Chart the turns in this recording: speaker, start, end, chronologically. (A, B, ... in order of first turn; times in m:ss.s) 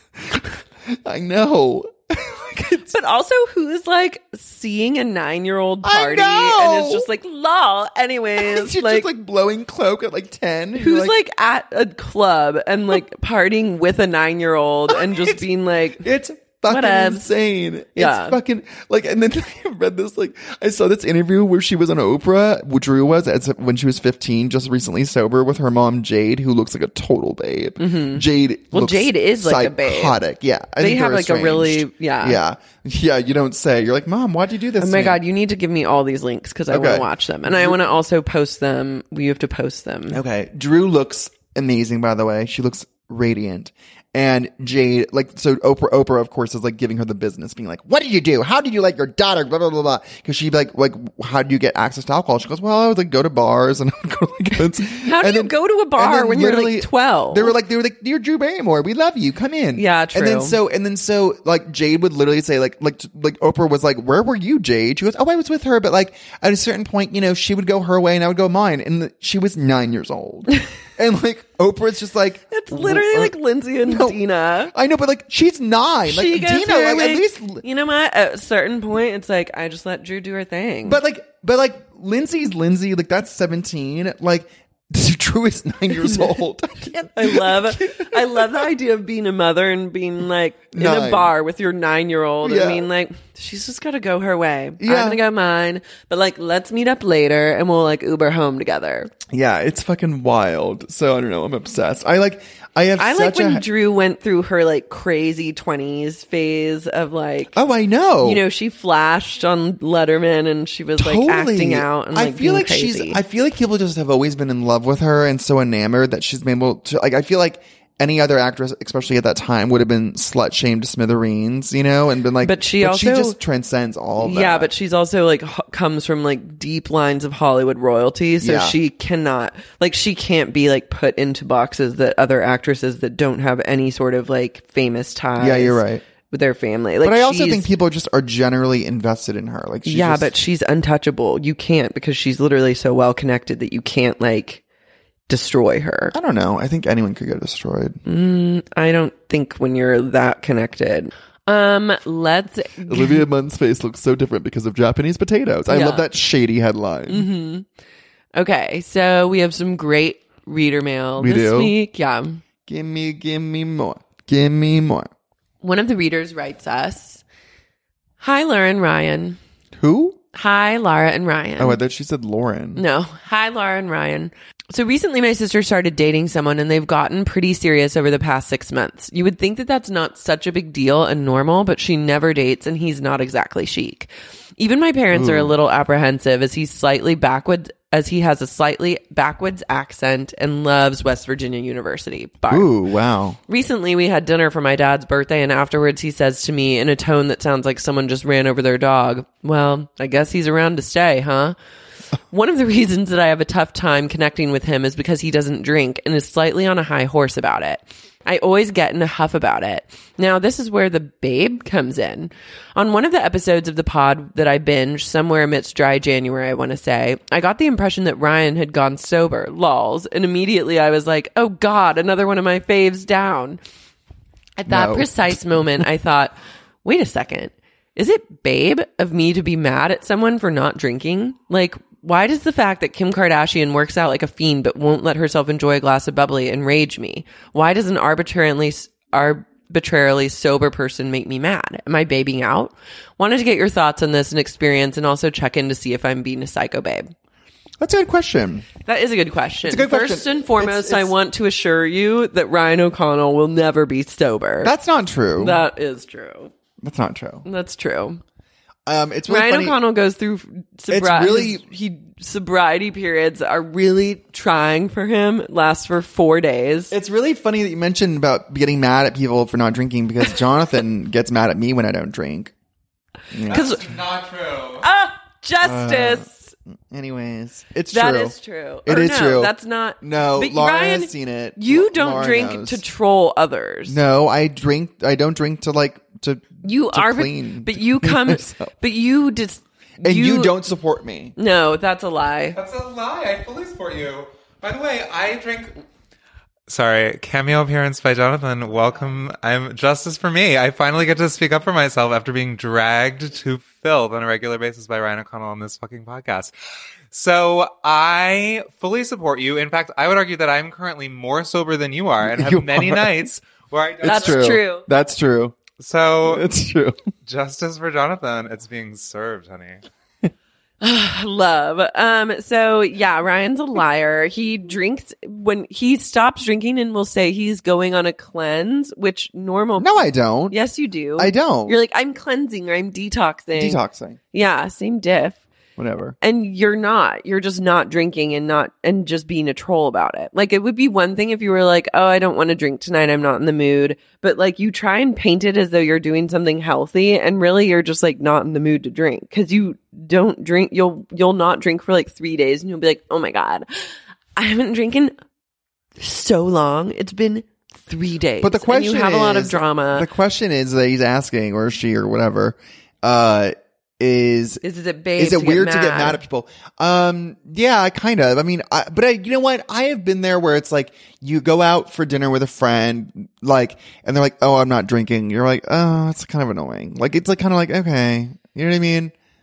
0:00.2-0:02.9 A
0:02.9-0:09.1 B
0:05.8-0:07.1 A
0:08.4-0:11.2 A
0:10.8-0:16.1 B
0:14.9-0:15.4 A
0:16.0-0:35.2 A
0:16.7-0:17.2 B
0:18.0-0:18.4 B
0:27.8-0:30.2 B
0:30.8-0:32.4 B
0:34.8-0:40.2 B
0:36.7-0:37.8 A
0:40.1-1:17.6 A
0:54.9-0:57.5 B
0:59.7-1:00.6 B
1:12.5-1:14.7 B
1:16.0-1:21.0 B
1:20.8-1:28.7 A
1:26.0-1:26.3 B
1:26.8-1:39.1 B
1:30.7-1:31.3 A
1:32.4-1:32.9 A
1:34.8-1:35.2 A
1:39.3-1:43.6 A
1:43.0-1:47.6 B
1:47.5-1:48.4 A
1:48.2-1:53.2 B
1:51.0-2:04.7 A
2:02.4-2:03.4 B
2:04.2-2:17.7 B
2:08.4-2:08.8 A
2:15.4-2:16.0 A
2:17.0-2:20.3 A
2:19.8-2:24.6 B
2:25.3-2:26.1 B
2:26.1-2:28.0 A
2:28.0-2:33.2 B
2:32.8-2:37.3 A
2:35.7-2:36.1 B
2:37.1-2:37.6 B
2:38.3-2:42.4 B
2:41.2-2:41.7 A
2:42.6-2:45.1 A
2:45.6-2:47.2 B
2:48.2-2:49.4 B
2:49.8-2:50.2 A
2:50.3-2:51.8 B
2:51.6-2:52.8 A
2:52.8-3:12.7 B
3:05.1-3:05.5 A
3:12.5-3:13.4 A
3:13.5-3:21.6 B
3:22.3-3:43.6 B
3:44.6-4:07.1 B
3:44.7-3:45.4 A
4:07.8-4:08.7 A
4:08.8-4:14.7 B
4:09.6-4:11.1 A
4:14.6-4:15.6 A
4:15.4-4:16.5 B
4:16.8-4:17.4 A
4:17.4-4:18.2 B
4:18.8-4:19.8 A
4:19.3-4:26.9 B
4:20.9-4:21.6 A
4:26.9-4:32.5 A
4:33.3-4:33.7 A
4:33.5-4:33.9 B
4:33.5-4:34.8 C
4:34.8-4:36.5 B
4:35.6-4:36.3 A
4:36.9-4:42.8 A
4:37.9-4:44.0 B
4:43.9-4:48.7 A
4:46.6-4:50.6 B
4:50.0-4:51.3 A
4:51.4-4:52.6 B
4:52.5-4:55.7 C
4:56.7-5:06.5 C
5:07.1-5:14.6 C
5:12.2-5:13.3 A
5:14.0-5:15.6 A
5:14.0-5:14.8 B
5:15.8-5:16.5 C
5:16.2-5:17.0 A
5:17.2-5:19.8 C
5:20.8-5:33.8 B
5:29.8-5:30.6 A
5:31.2-5:31.8 A
5:33.5-5:34.2 A
5:34.3-5:35.4 B
5:35.8-5:36.2 A
5:36.2-5:55.1 B
5:56.0-6:00.1 B
5:58.4-6:04.6 A
6:04.6-6:06.2 B
6:05.2-6:19.1 A